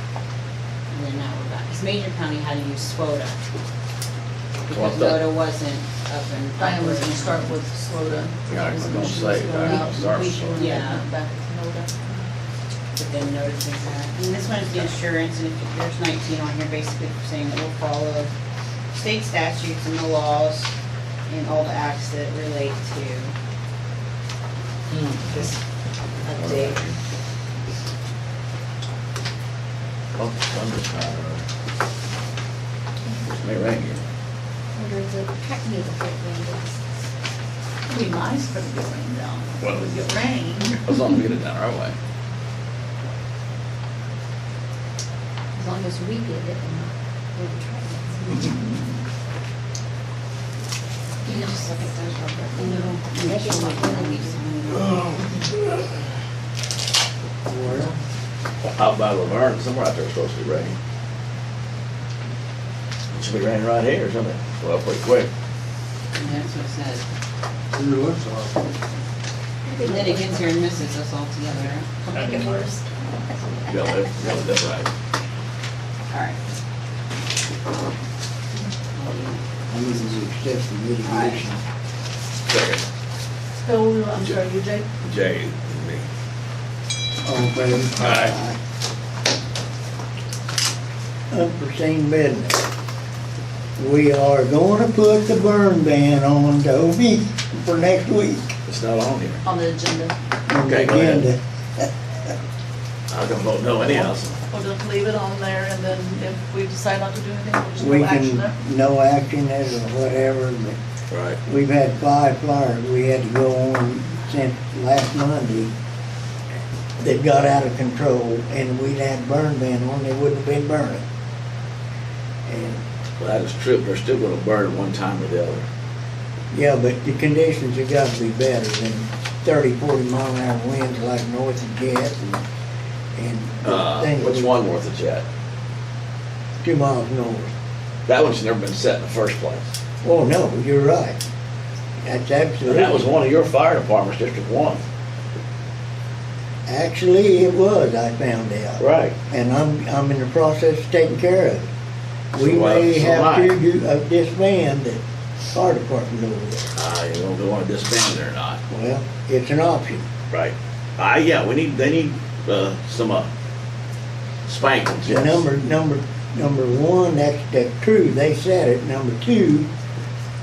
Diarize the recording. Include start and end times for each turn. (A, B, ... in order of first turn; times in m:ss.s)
0:00.9-0:03.4 A
0:04.7-0:07.5 A
0:04.7-0:05.2 B
0:06.6-0:12.1 C
0:08.5-0:10.7 B
0:10.5-0:11.0 A
0:13.0-0:18.3 A
0:18.9-0:20.7 A
0:21.3-0:23.3 A
0:24.9-0:25.2 B
0:25.2-0:25.6 A
0:26.2-0:26.8 A
0:26.3-0:26.9 B
0:30.2-0:31.4 B
0:33.2-0:34.0 B
0:34.7-0:36.8 D
0:37.9-0:40.8 C
0:40.8-0:42.0 B
0:45.5-0:48.7 D
0:51.2-0:54.4 D
0:51.2-0:55.2 A
0:57.4-0:57.9 E
0:58.7-1:00.8 B
1:03.1-1:05.3 B
1:06.1-1:07.0 A
1:07.8-1:08.5 E
1:09.6-1:10.5 D
1:09.8-1:12.1 A
1:12.0-1:13.8 D
1:13.7-1:14.9 B
1:16.1-1:16.4 A
1:18.9-1:19.4 A
1:19.7-1:21.6 E
1:21.0-1:21.4 A
1:22.5-1:22.8 B
1:23.6-1:24.8 C
1:25.0-1:26.0 B
1:27.2-1:28.6 E
1:28.0-1:28.4 B
1:31.3-1:32.6 E
1:33.8-1:38.5 E
1:38.6-1:39.4 B
1:39.4-1:40.1 C
1:40.5-1:41.9 E
1:40.6-1:41.2 B
1:43.1-1:44.4 B
1:44.5-1:48.5 C
1:47.8-1:50.8 E
1:51.1-1:51.4 B
1:51.4-1:55.7 E
1:57.0-2:01.0 E
2:02.4-2:02.8 E
2:03.2-2:05.6 B
2:06.5-2:12.4 E
2:13.2-2:14.5 E
2:13.6-2:15.2 B
2:16.6-2:17.5 E
2:18.0-2:19.7 B
2:20.0-2:21.2 E
2:22.0-2:23.2 E
2:22.6-2:24.8 B
2:26.7-2:31.7 E
2:28.8-2:29.1 B
2:32.3-2:33.6 B
2:32.3-2:35.0 E
2:35.5-2:36.7 E
2:36.7-2:38.6 B
2:38.7-2:40.0 E
2:40.3-2:43.3 B
2:44.4-2:45.4 B
2:45.0-2:49.7 E